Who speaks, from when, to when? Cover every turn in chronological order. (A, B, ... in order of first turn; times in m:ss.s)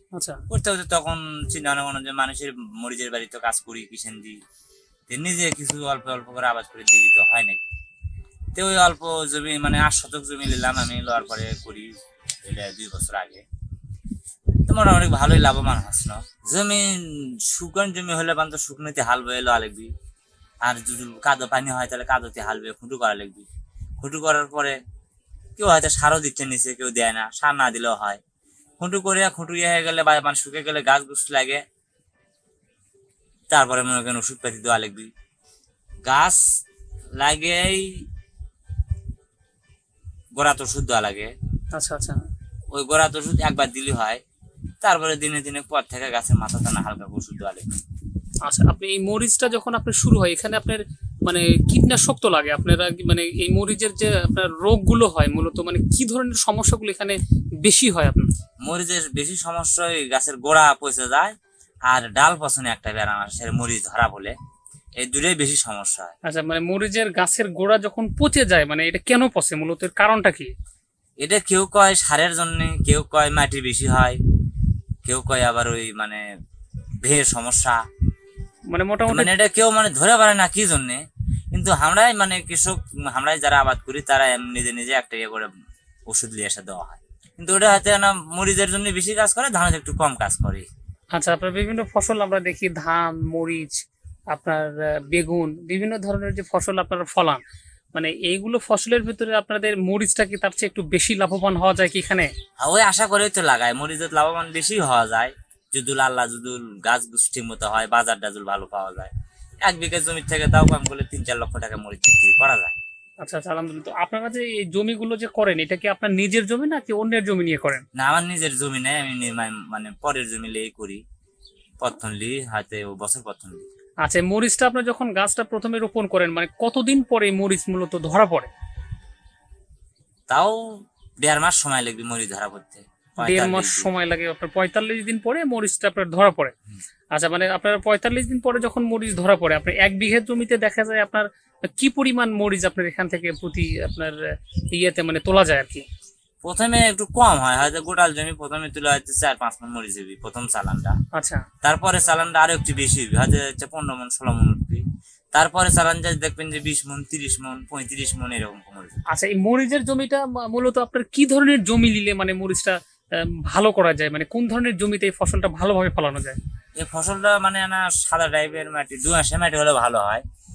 0:00.1-0:00.4 A
0:00.5-0:04.4 B
0:05.1-0:07.6 B
0:08.6-0:11.9 B
0:12.4-0:13.4 B
0:14.7-0:19.9 B
0:20.6-0:23.5 B
0:24.0-0:24.8 B
0:25.6-0:28.2 B
0:28.8-0:31.6 B
0:33.5-0:35.1 B
0:36.0-0:36.4 B
0:37.2-0:38.0 B
0:40.4-0:41.3 B
0:41.7-0:42.2 A
0:42.7-0:44.2 B
0:44.8-0:47.8 B
0:48.4-0:58.3 A
0:58.6-1:01.4 B
1:01.9-1:04.4 B
1:05.0-1:06.2 B
1:06.2-1:10.5 A
1:11.2-1:14.2 B
1:15.0-1:16.2 B
1:17.0-1:17.8 B
1:18.7-1:19.3 A
1:19.1-1:21.0 B
1:21.5-1:25.5 B
1:26.1-1:30.7 B
1:31.1-1:37.4 A
1:37.9-1:42.3 A
1:42.6-1:49.1 B
1:49.6-1:52.8 B
1:53.2-1:57.8 A
1:58.0-2:01.0 B
2:01.8-2:03.7 B
2:04.0-2:08.5 A
2:10.3-2:13.9 B
2:13.2-2:16.5 A
2:17.1-2:25.9 A
2:26.4-2:31.0 B
2:31.1-2:31.4 A
2:31.6-2:39.0 B
2:39.1-2:46.4 A
2:46.8-2:50.2 B